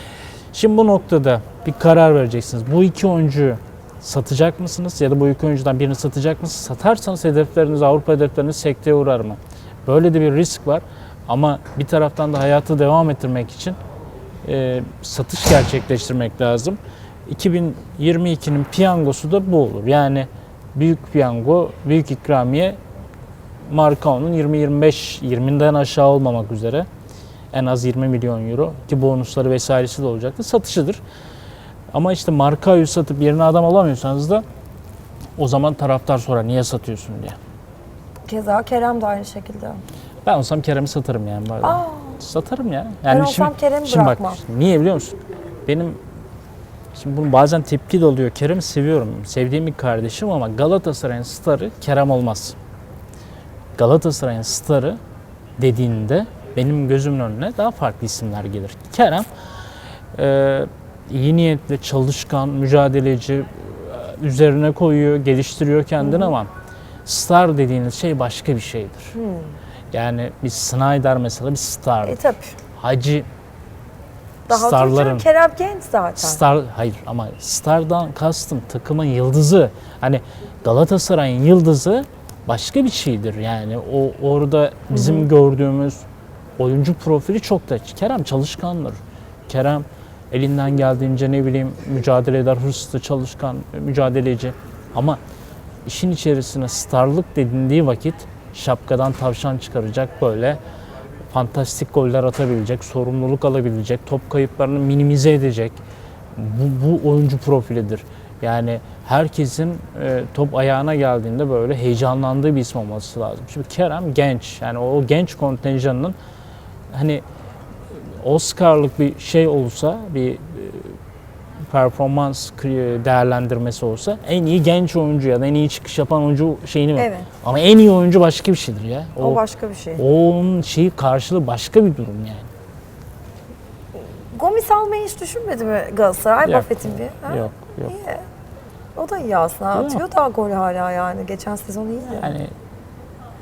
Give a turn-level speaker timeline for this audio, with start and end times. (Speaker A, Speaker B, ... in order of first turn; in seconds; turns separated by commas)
Speaker A: 0.5-13.8, Speaker A: 14.4-22.8, Speaker A: 23.7-26.9, Speaker A: 27.5-31.0, Speaker A: 31.9-34.4, Speaker A: 35.4-37.4, Speaker B: 38.2-39.8, Speaker A: 40.2-46.0, Speaker B: 41.6-42.2, Speaker B: 43.1-44.4, Speaker A: 46.9-52.5, Speaker A: 53.8-55.0, Speaker A: 55.6-59.2, Speaker A: 60.1-66.5, Speaker B: 66.0-66.3, Speaker A: 67.0-69.1, Speaker B: 69.1-69.5, Speaker A: 69.9-72.2, Speaker B: 72.0-72.5, Speaker A: 72.8-73.2, Speaker B: 74.5-76.4, Speaker A: 74.5-75.2, Speaker A: 76.2-86.0, Speaker B: 84.9-85.3, Speaker A: 86.6-95.2, Speaker A: 95.8-100.6, Speaker A: 101.3-105.8, Speaker A: 106.3-116.1, Speaker A: 116.9-117.2, Speaker A: 117.9-121.0, Speaker A: 121.7-129.4, Speaker B: 127.0-127.3, Speaker B: 129.2-130.0, Speaker A: 130.0-132.5, Speaker B: 134.3-138.2, Speaker A: 136.4-137.9, Speaker B: 138.9-142.3, Speaker A: 139.7-140.0, Speaker A: 142.1-142.5